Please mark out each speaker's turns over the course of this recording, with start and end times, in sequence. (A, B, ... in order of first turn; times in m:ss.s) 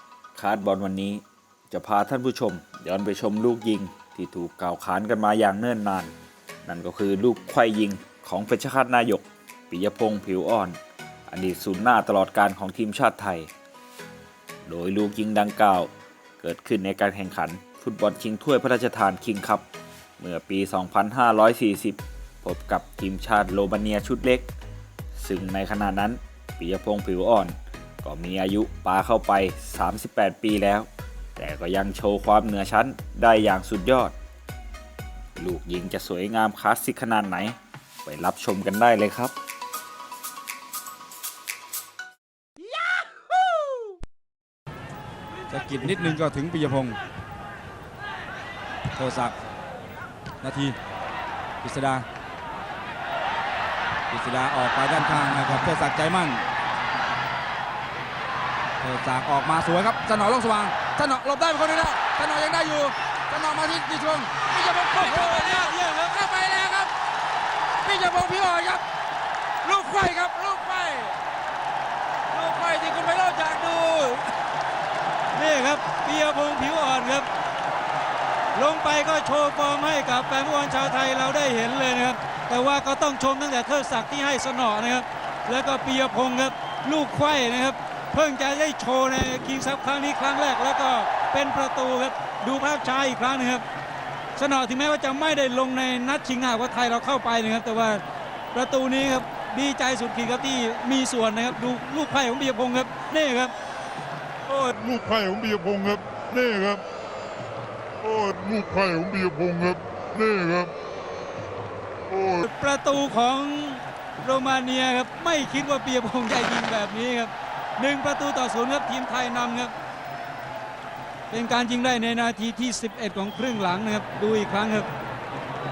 0:00.4-0:06.1 A
0:06.6-0:10.8 A
0:11.3-0:13.5 A
0:14.6-0:19.6 A
0:20.2-0:24.5 A
0:25.2-0:34.2 A
0:35.4-0:39.3 A
0:45.5-0:47.0 B
0:48.9-0:49.3 B
0:50.4-0:50.8 B
0:51.6-0:52.0 B
0:54.1-0:56.4 B
0:58.8-1:06.9 B
1:05.0-1:06.3 C
1:07.8-1:08.8 B
1:09.6-1:11.2 B
1:12.3-1:14.3 B
1:15.3-1:17.3 C
1:18.5-1:33.6 C
1:34.4-1:43.5 C
1:44.6-1:46.8 D
1:48.0-1:50.7 D
1:52.3-1:59.7 C
2:01.3-2:04.9 C